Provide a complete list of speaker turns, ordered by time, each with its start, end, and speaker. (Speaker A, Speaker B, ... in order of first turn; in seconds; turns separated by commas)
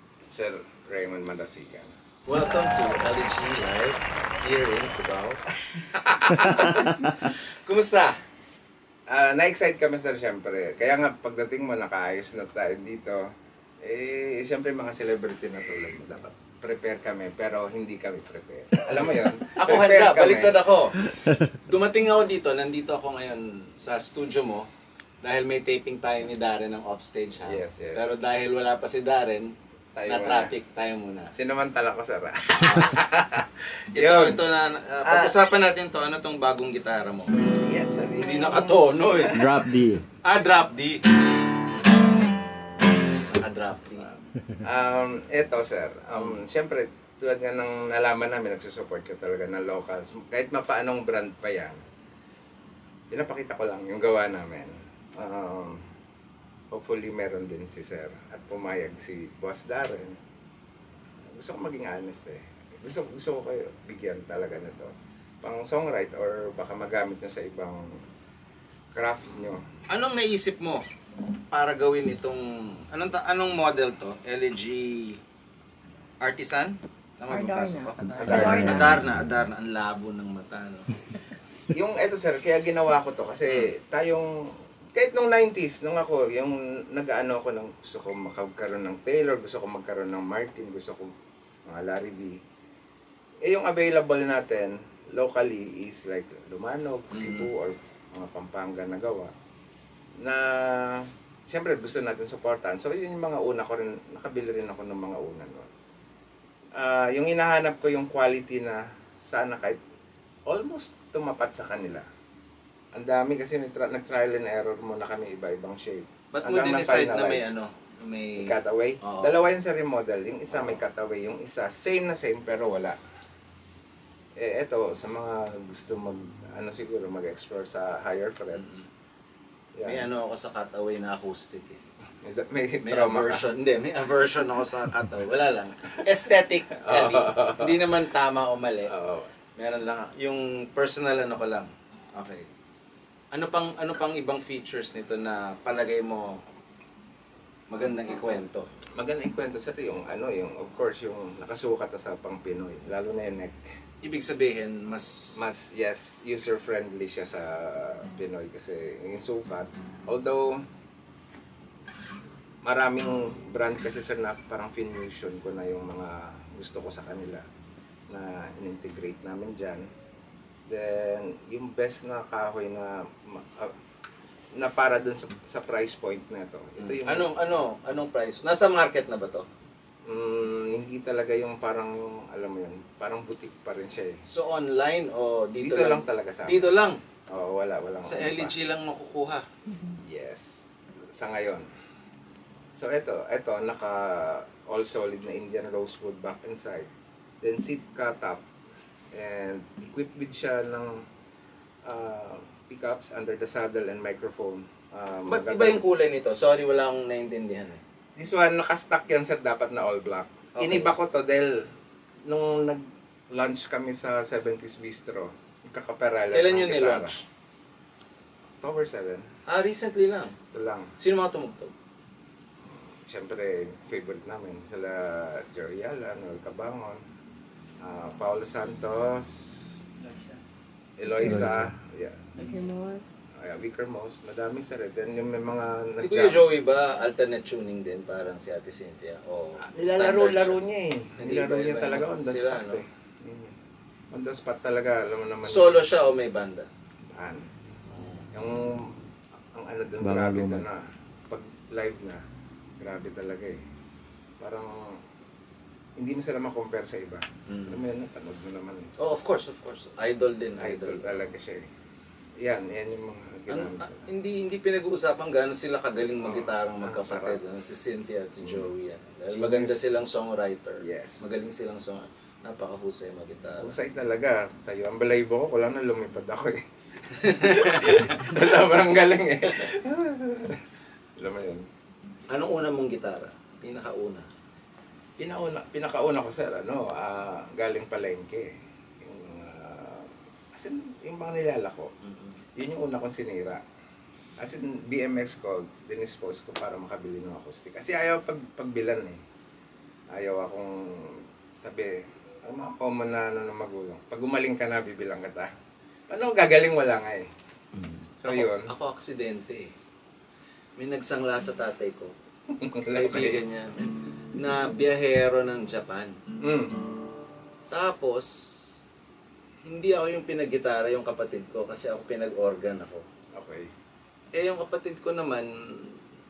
Speaker A: 0.3-1.9, Speaker B: 2.3-5.4, Speaker A: 6.0-6.7, Speaker B: 6.1-8.2, Speaker A: 9.1-13.2, Speaker A: 13.8-20.6, Speaker B: 19.6-24.7, Speaker B: 25.2-29.5, Speaker A: 27.4-28.1, Speaker A: 29.9-30.5, Speaker B: 30.1-31.3, Speaker A: 31.3-34.5, Speaker B: 32.6-33.0, Speaker B: 34.0-37.6, Speaker A: 35.0-35.4, Speaker A: 37.4-39.4, Speaker B: 38.2-39.5, Speaker C: 39.3-40.0, Speaker B: 40.2-41.0, Speaker B: 43.3-44.1, Speaker A: 44.0-51.8, Speaker A: 53.1-55.8, Speaker A: 56.7-60.2, Speaker A: 61.3-68.0, Speaker A: 68.9-69.6, Speaker B: 69.9-70.8, Speaker B: 71.5-75.2, Speaker B: 76.2-80.9, Speaker D: 77.3-79.0, Speaker A: 78.2-79.0, Speaker C: 78.2-78.7, Speaker A: 81.7-84.3, Speaker A: 84.9-91.1, Speaker A: 91.7-92.3, Speaker A: 93.4-99.3, Speaker B: 97.1-97.5, Speaker A: 100.2-105.7, Speaker A: 106.8-109.8, Speaker A: 110.5-112.0, Speaker A: 112.9-117.5, Speaker B: 116.3-119.3, Speaker A: 118.4-123.0, Speaker A: 124.4-128.8, Speaker B: 128.5-128.8, Speaker A: 129.8-130.1, Speaker B: 129.8-131.8, Speaker A: 132.2-133.5, Speaker B: 132.8-138.9, Speaker A: 136.8-137.8, Speaker A: 138.9-139.3, Speaker B: 139.6-142.5, Speaker B: 143.3-146.4, Speaker B: 147.7-148.7, Speaker A: 149.0-153.6, Speaker B: 154.0-155.5, Speaker A: 155.3-160.6, Speaker A: 162.6-167.4, Speaker A: 168.1-169.8, Speaker A: 170.7-173.7, Speaker A: 174.6-177.3, Speaker B: 176.8-179.5, Speaker A: 180.1-184.2, Speaker B: 184.2-187.0, Speaker A: 185.6-186.8, Speaker A: 187.3-188.5, Speaker B: 188.0-189.4, Speaker A: 190.0-191.7, Speaker A: 192.7-196.9, Speaker A: 197.4-198.4, Speaker A: 199.1-200.9, Speaker A: 201.8-205.8, Speaker B: 205.3-207.8, Speaker A: 208.2-211.6, Speaker B: 210.6-210.9, Speaker A: 212.3-217.2, Speaker B: 216.3-217.2, Speaker A: 218.6-219.2, Speaker B: 219.5-220.3, Speaker A: 220.5-220.9, Speaker B: 221.0-221.7, Speaker A: 222.7-227.0, Speaker A: 227.8-229.8, Speaker A: 231.0-232.2, Speaker C: 231.2-231.7, Speaker D: 232.4-233.2, Speaker A: 233.3-236.4, Speaker B: 236.0-240.6, Speaker A: 239.6-243.5, Speaker B: 241.2-242.8, Speaker A: 244.1-245.8, Speaker B: 245.4-246.7, Speaker A: 247.1-247.4, Speaker B: 247.9-248.3, Speaker A: 248.3-249.0, Speaker A: 249.5-252.2, Speaker C: 250.0-250.7, Speaker A: 252.8-253.6, Speaker A: 254.4-255.0, Speaker A: 256.0-259.0, Speaker B: 257.5-257.8, Speaker B: 259.0-261.2, Speaker A: 260.6-261.7, Speaker A: 262.4-264.0, Speaker B: 263.5-273.7, Speaker A: 266.2-267.4, Speaker A: 268.4-268.7, Speaker A: 269.3-269.8, Speaker A: 270.8-271.2, Speaker A: 273.6-276.6, Speaker A: 277.1-280.6, Speaker B: 277.2-278.1, Speaker A: 281.2-281.6, Speaker B: 282.3-284.3, Speaker A: 285.2-291.9, Speaker B: 292.0-292.4, Speaker A: 292.6-293.6, Speaker A: 294.4-299.2, Speaker A: 300.1-305.5, Speaker A: 306.1-307.3, Speaker A: 308.2-308.7, Speaker B: 308.2-309.7, Speaker B: 310.8-312.1, Speaker A: 312.5-313.4, Speaker B: 312.9-316.2, Speaker A: 316.4-316.8, Speaker B: 317.7-318.7, Speaker B: 319.6-323.1, Speaker A: 323.3-323.7, Speaker B: 324.3-326.0